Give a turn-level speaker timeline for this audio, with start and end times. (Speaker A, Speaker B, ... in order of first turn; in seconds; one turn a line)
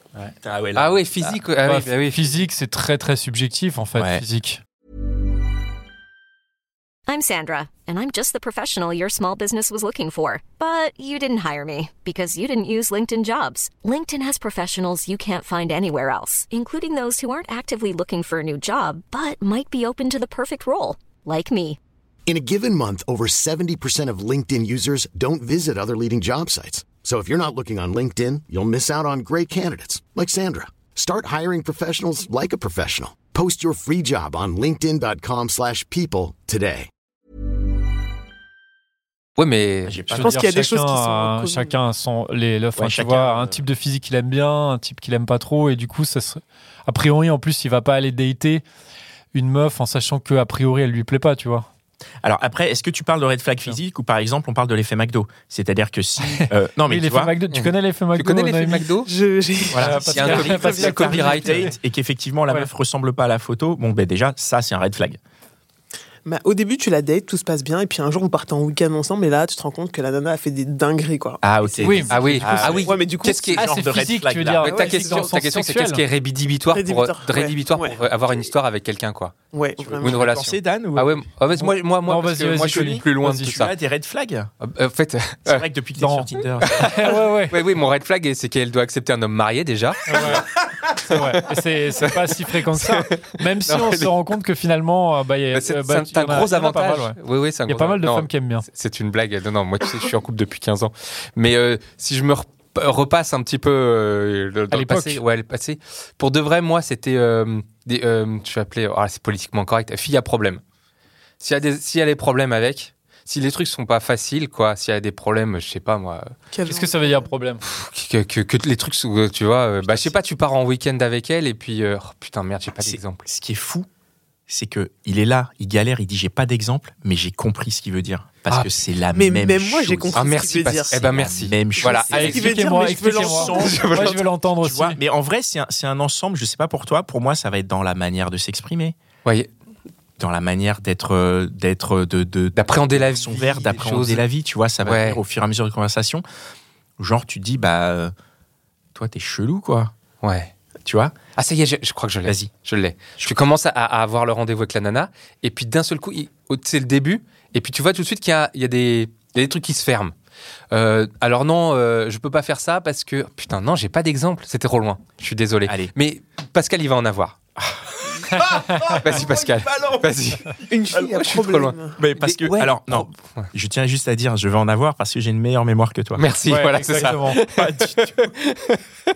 Speaker A: 0.1-2.4
Speaker B: 0.4-1.4
Speaker C: 1.6-4.6
Speaker B: 4.0-4.2
Speaker D: 7.1-21.8
Speaker E: 22.3-36.9
Speaker A: 39.4-40.0
Speaker B: 39.9-40.3
Speaker C: 40.1-48.6
Speaker F: 40.1-41.8
Speaker B: 42.7-43.6
Speaker C: 49.3-51.7
Speaker B: 52.2-57.3
Speaker C: 56.2-58.9
Speaker A: 57.5-59.1
Speaker F: 59.0-61.2
Speaker B: 59.7-65.2
Speaker C: 59.8-61.8
Speaker A: 60.1-61.7
Speaker F: 66.2-72.2
Speaker B: 71.4-74.6
Speaker C: 71.8-76.0
Speaker A: 72.1-73.8
Speaker F: 72.8-73.6
Speaker A: 74.5-79.3
Speaker F: 74.6-75.2
Speaker F: 76.7-78.5
Speaker F: 79.5-80.2
Speaker B: 79.8-81.7
Speaker A: 79.9-83.8
Speaker C: 82.0-83.7
Speaker B: 82.6-84.5
Speaker A: 84.6-85.6
Speaker B: 85.5-86.8
Speaker C: 86.0-87.6
Speaker A: 86.6-94.2
Speaker C: 90.1-90.5
Speaker C: 91.0-98.7
Speaker A: 95.5-110.6
Speaker C: 104.7-105.2
Speaker A: 111.4-116.3
Speaker F: 116.5-117.3
Speaker C: 116.6-117.6
Speaker A: 117.6-123.2
Speaker B: 119.8-120.2
Speaker B: 122.8-123.9
Speaker B: 124.5-130.2
Speaker F: 129.1-131.1
Speaker A: 130.1-134.2
Speaker B: 130.9-132.1
Speaker F: 131.8-134.0
Speaker C: 132.0-135.0
Speaker B: 134.0-138.9
Speaker B: 140.2-146.2
Speaker A: 142.5-144.2
Speaker A: 144.8-145.2
Speaker B: 147.0-148.1
Speaker B: 148.9-149.9
Speaker A: 150.2-150.5
Speaker B: 150.8-151.2
Speaker A: 151.3-160.1
Speaker B: 152.2-152.5
Speaker A: 160.7-167.3
Speaker B: 165.6-165.9
Speaker B: 167.6-170.1
Speaker C: 168.3-169.0
Speaker A: 168.8-173.4
Speaker F: 170.6-172.0
Speaker B: 172.0-176.3
Speaker A: 176.2-178.8
Speaker C: 176.4-177.4
Speaker B: 177.5-178.3